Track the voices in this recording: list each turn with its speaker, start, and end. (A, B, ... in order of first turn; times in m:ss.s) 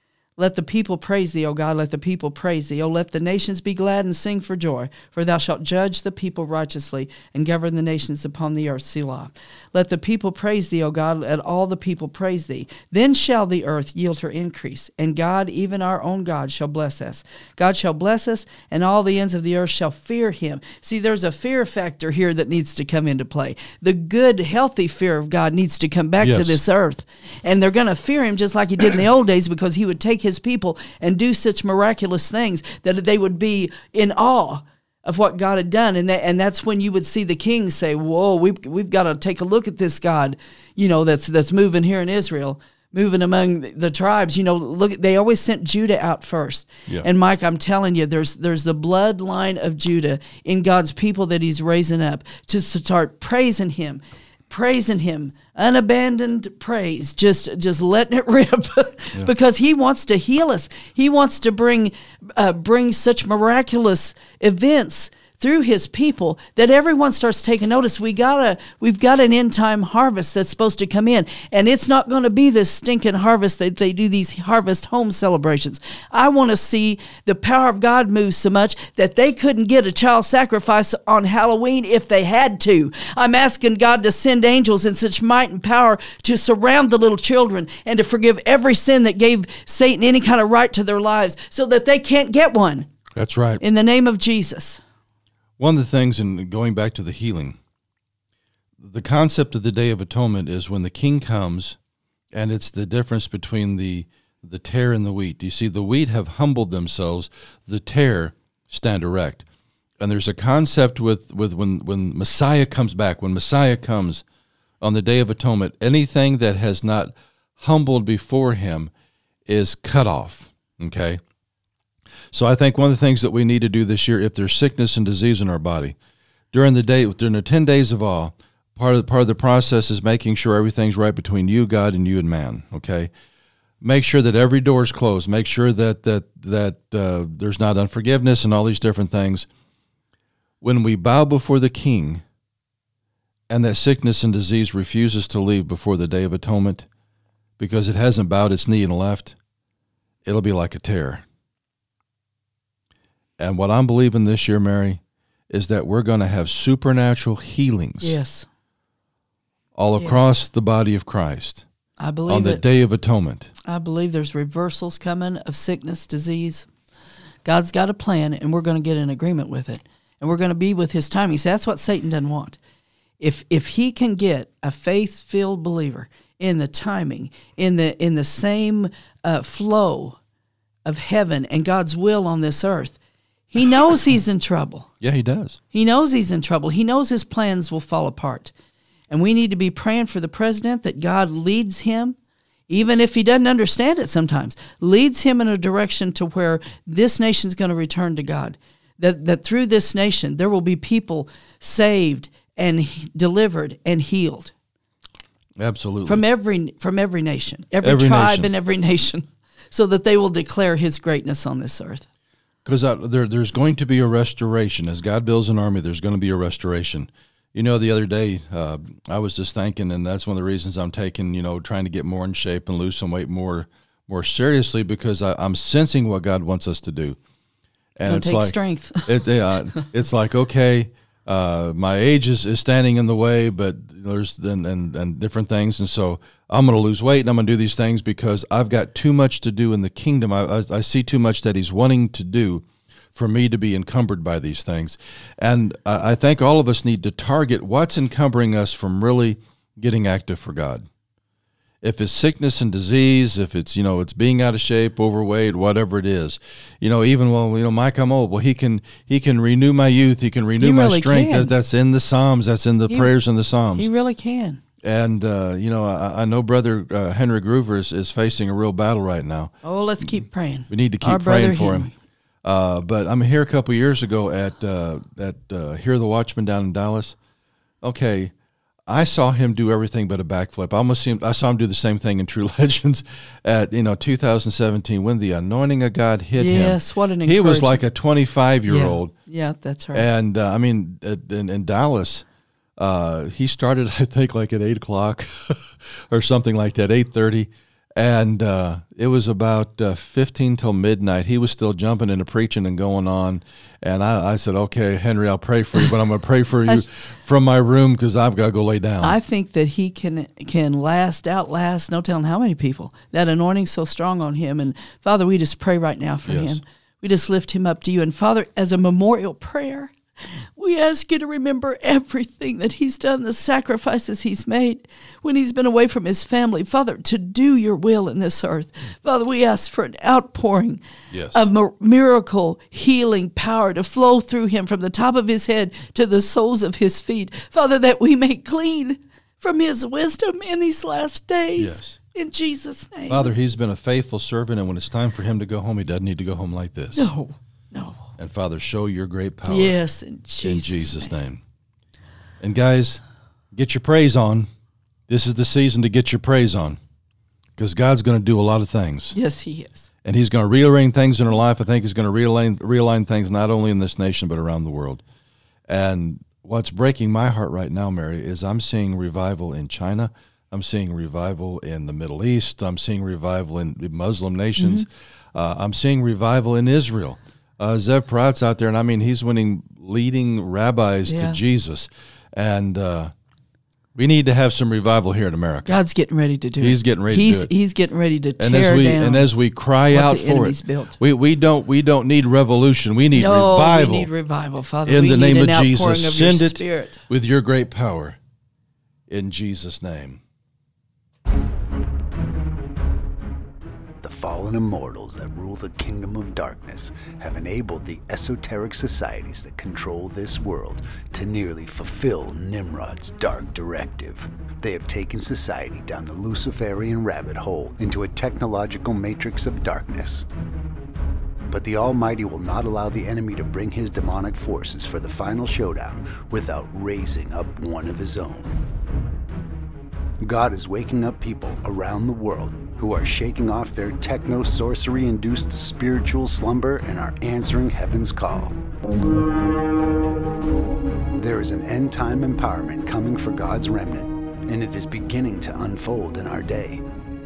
0:00.4-1:32.9 A
0:26.2-0:26.6 B
1:33.1-1:33.6 B
1:33.6-1:34.8 A
1:35.6-1:37.6 B
1:38.8-1:41.8 B
1:42.3-1:49.4 B
1:50.0-1:54.2 B
1:54.8-1:58.9 B
1:59.5-2:01.2 B
2:02.3-2:06.0 B
2:06.5-2:13.1 B
2:13.8-2:19.5 B
2:20.6-2:22.2 B
2:23.5-2:26.9 B
2:27.6-2:29.4 B
2:30.2-2:31.2 B
2:33.4-2:38.2 B
2:38.0-2:38.5 A
2:39.8-2:41.6 B
2:40.0-2:40.4 A
2:42.0-2:42.6 A
2:42.3-2:43.5 B
2:43.6-2:46.7 A
2:47.4-2:52.6 A
2:53.2-3:00.2 A
3:00.8-3:03.0 A
3:03.5-3:04.9 A
3:05.0-3:05.6 B
3:05.7-3:08.5 A
3:09.1-3:12.2 A
3:12.7-3:24.5 A
3:25.6-3:26.2 B
3:26.1-3:32.1 A
3:27.8-3:28.5 B
3:32.6-3:47.2 B
3:48.0-4:10.9 B
3:48.0-3:49.2 A
4:11.8-4:23.9 B
4:20.6-4:21.5 A
4:23.8-4:24.6 A
4:24.8-4:29.5 B
4:29.6-4:31.9 A
4:30.7-4:31.9 B
4:32.4-4:37.2 B
4:37.8-4:38.3 B
4:38.9-4:49.1 B
4:46.4-4:47.8 A
4:48.7-4:50.1 A
4:49.9-4:52.2 B
4:52.8-5:09.2 B
5:09.0-5:20.0 A
5:16.3-5:16.6 B
5:20.6-5:43.3 A
5:31.1-5:31.4 B
5:41.6-5:42.0 B
5:43.1-5:47.1 B
5:47.0-5:48.0 A
5:48.2-5:49.8 B
5:49.5-5:51.1 A
5:50.4-5:51.4 B
5:52.4-5:53.0 B
5:53.5-5:54.5 B
5:55.1-5:56.8 B
5:57.6-5:59.2 B
5:59.1-5:59.9 A
6:00.0-6:05.0 B
6:05.7-6:23.1 B
6:14.6-6:14.9 A
6:21.1-6:21.4 A
6:24.0-6:25.8 B
6:25.7-6:29.3 A
6:26.6-6:27.5 B
6:28.4-6:34.1 B
6:29.9-6:31.0 A
6:33.1-6:37.0 A
6:34.9-6:38.2 B
6:39.1-6:40.2 B
6:44.0-7:00.3 C
7:01.5-7:08.6 C
7:10.2-7:18.6 C
7:21.1-7:26.8 C